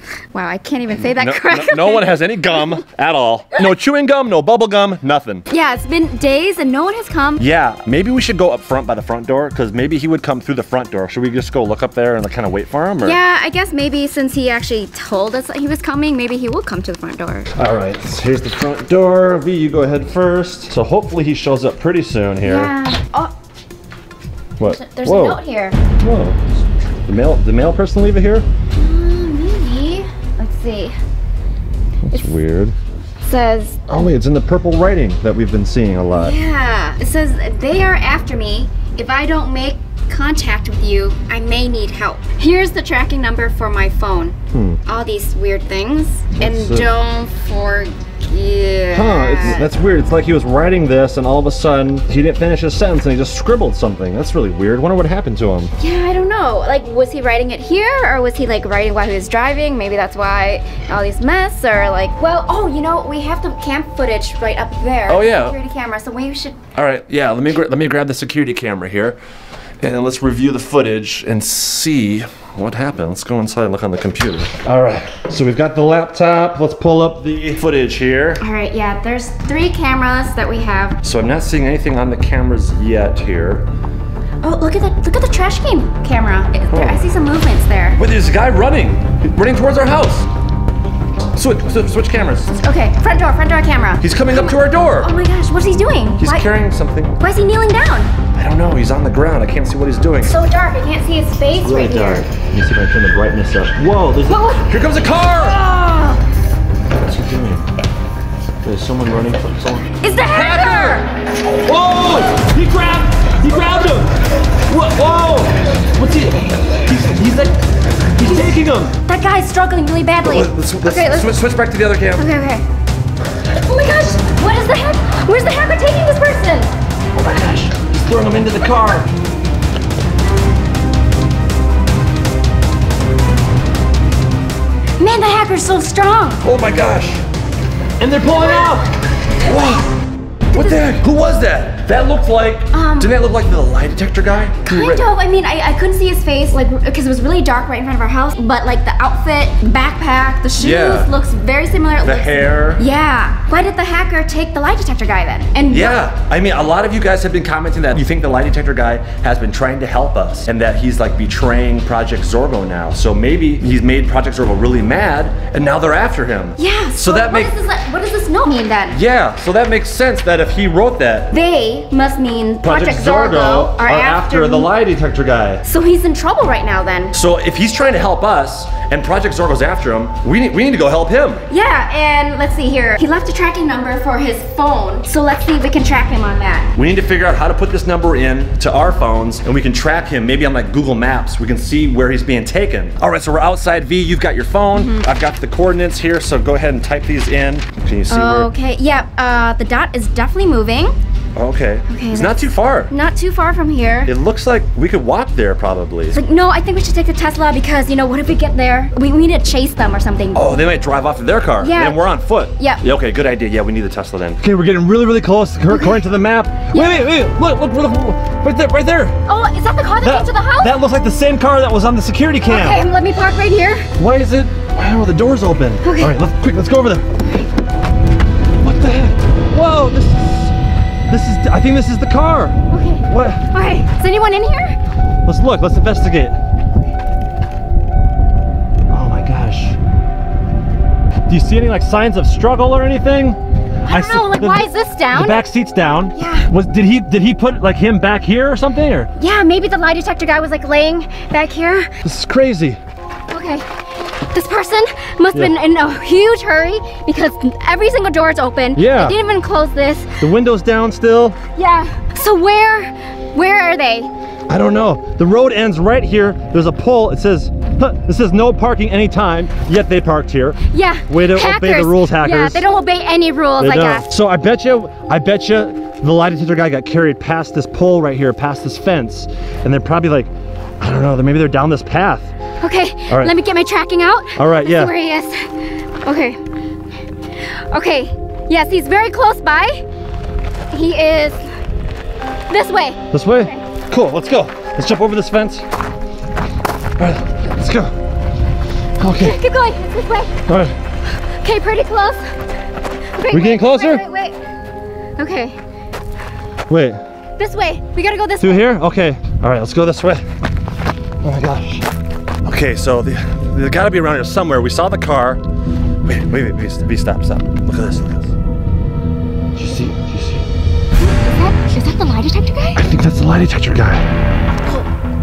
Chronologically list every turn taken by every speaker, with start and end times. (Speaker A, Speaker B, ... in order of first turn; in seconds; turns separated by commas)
Speaker A: 0.3-2.8, Speaker B: 1.1-5.5, Speaker A: 5.5-7.4, Speaker B: 7.4-13.2, Speaker A: 13.0-17.5, Speaker B: 17.5-22.7, Speaker A: 22.4-23.3, Speaker B: 24.6-25.4, Speaker A: 24.6-25.8, Speaker B: 26.0-26.4, Speaker B: 27.1-28.4, Speaker A: 28.8-30.9, Speaker B: 32.0-32.7, Speaker A: 33.2-33.8, Speaker B: 33.9-36.3, Speaker A: 36.1-49.7, Speaker B: 44.5-44.8, Speaker B: 46.4-46.9, Speaker B: 48.9-55.7, Speaker A: 55.8-66.6, Speaker B: 65.1-65.5, Speaker B: 66.7-69.2, Speaker B: 69.8-78.4, Speaker A: 78.4-81.0, Speaker B: 81.0-83.7, Speaker A: 84.4-88.0, Speaker B: 86.7-87.0, Speaker B: 88.0-90.3, Speaker B: 91.3-92.5, Speaker A: 92.6-96.5, Speaker B: 94.0-95.1, Speaker B: 96.2-97.2, Speaker A: 97.2-98.1, Speaker B: 98.3-100.4, Speaker A: 100.2-102.3, Speaker B: 101.6-105.6, Speaker A: 104.3-104.7, Speaker A: 105.3-106.2, Speaker B: 106.9-107.7, Speaker B: 108.6-111.0, Speaker A: 110.0-111.1, Speaker B: 111.6-114.1, Speaker B: 114.7-117.5, Speaker B: 118.2-118.9, Speaker A: 119.0-121.3, Speaker B: 120.2-122.3, Speaker A: 122.2-122.6, Speaker A: 123.6-126.7, Speaker B: 127.1-129.1, Speaker A: 135.0-136.4, Speaker B: 136.4-137.2, Speaker B: 138.0-138.9, Speaker A: 138.3-138.8, Speaker B: 139.4-139.9, Speaker A: 140.5-140.9, Speaker B: 140.5-145.1, Speaker A: 142.7-143.1, Speaker A: 144.7-156.0, Speaker B: 150.6-151.1, Speaker B: 152.0-152.8, Speaker B: 155.7-167.5, Speaker A: 166.6-169.0, Speaker B: 168.9-171.3, Speaker A: 171.3-174.7, Speaker B: 172.6-175.6, Speaker A: 175.6-177.1, Speaker B: 177.1-181.4, Speaker A: 181.5-186.7, Speaker B: 186.7-198.5, Speaker A: 194.7-195.1, Speaker A: 198.1-200.9, Speaker B: 201.3-202.9, Speaker A: 201.9-202.3, Speaker A: 202.9-204.1, Speaker B: 204.0-206.2, Speaker A: 206.1-210.6, Speaker B: 210.3-219.2, Speaker A: 211.6-212.0, Speaker A: 212.6-212.8, Speaker A: 215.7-216.0, Speaker A: 216.7-217.0, Speaker A: 219.2-220.7, Speaker B: 220.0-222.8, Speaker A: 222.4-223.9, Speaker B: 224.0-227.1, Speaker A: 225.8-226.1, Speaker B: 228.6-230.5, Speaker B: 231.1-233.4, Speaker A: 232.7-234.8, Speaker B: 235.2-236.3, Speaker B: 238.9-239.8, Speaker B: 241.3-249.1, Speaker A: 243.9-245.4, Speaker A: 246.1-246.5, Speaker A: 249.2-251.9, Speaker B: 252.0-252.8, Speaker A: 253.3-253.6, Speaker A: 254.3-260.1, Speaker B: 258.7-259.2, Speaker B: 260.2-261.4, Speaker A: 261.6-264.1, Speaker B: 264.5-270.6, Speaker A: 270.7-274.1, Speaker B: 271.1-272.6, Speaker B: 273.6-282.3, Speaker A: 282.6-285.5, Speaker B: 283.1-283.3, Speaker B: 284.4-284.9, Speaker A: 286.0-286.4, Speaker A: 287.7-289.8, Speaker A: 290.7-291.4, Speaker A: 292.5-293.6, Speaker B: 293.1-295.6, Speaker B: 297.0-297.9, Speaker B: 299.0-299.4, Speaker A: 299.1-300.4, Speaker B: 300.5-300.8, Speaker A: 301.4-302.3, Speaker A: 303.2-304.4, Speaker B: 303.3-304.0, Speaker A: 305.2-305.6, Speaker B: 306.7-307.0, Speaker A: 307.4-308.7, Speaker B: 308.4-310.2, Speaker B: 311.2-311.8, Speaker B: 312.4-315.4, Speaker B: 316.0-318.3, Speaker B: 319.6-320.4, Speaker A: 321.0-322.8, Speaker B: 322.7-324.1